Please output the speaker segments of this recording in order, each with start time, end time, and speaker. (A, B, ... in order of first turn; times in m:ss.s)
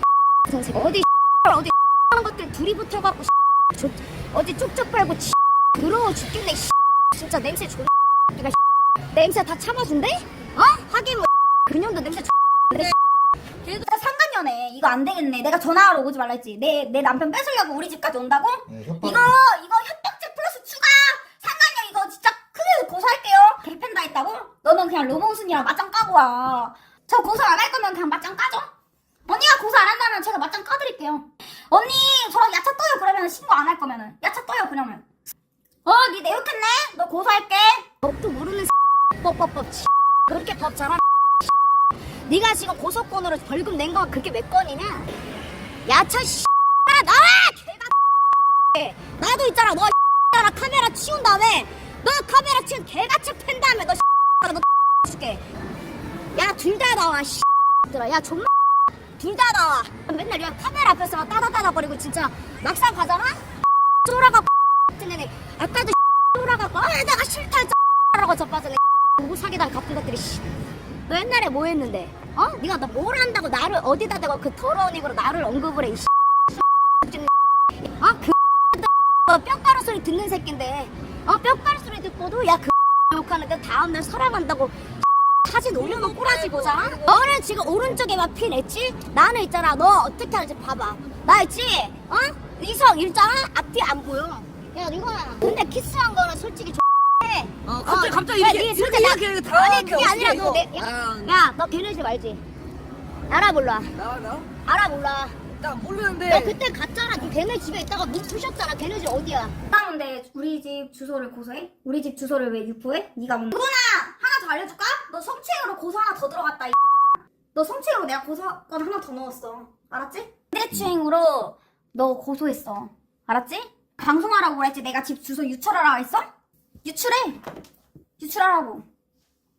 0:00.5-0:08.6 A
0:09.1-0:12.9 A
0:13.6-0:28.7 B
0:29.2-0:35.0 B
0:35.8-0:37.9 B
0:38.0-0:41.0 A
0:42.3-0:45.1 A
0:45.8-0:47.9 A
0:48.7-0:55.4 A
0:56.3-0:58.5 A
0:59.2-1:03.4 A
1:04.0-1:10.4 A
1:11.1-1:16.1 A
1:17.0-1:17.3 A
1:17.8-1:24.8 A
1:25.4-1:42.4 A
1:25.9-1:26.9 C
1:37.7-1:41.1 C
1:43.3-1:44.0 A
1:44.1-1:44.4 C
1:44.6-1:45.4 A
1:45.6-1:46.6 C
1:46.3-1:49.5 A
1:49.7-1:56.8 B
1:57.5-2:06.3 B
2:06.8-2:07.4 B
2:08.2-2:08.8 B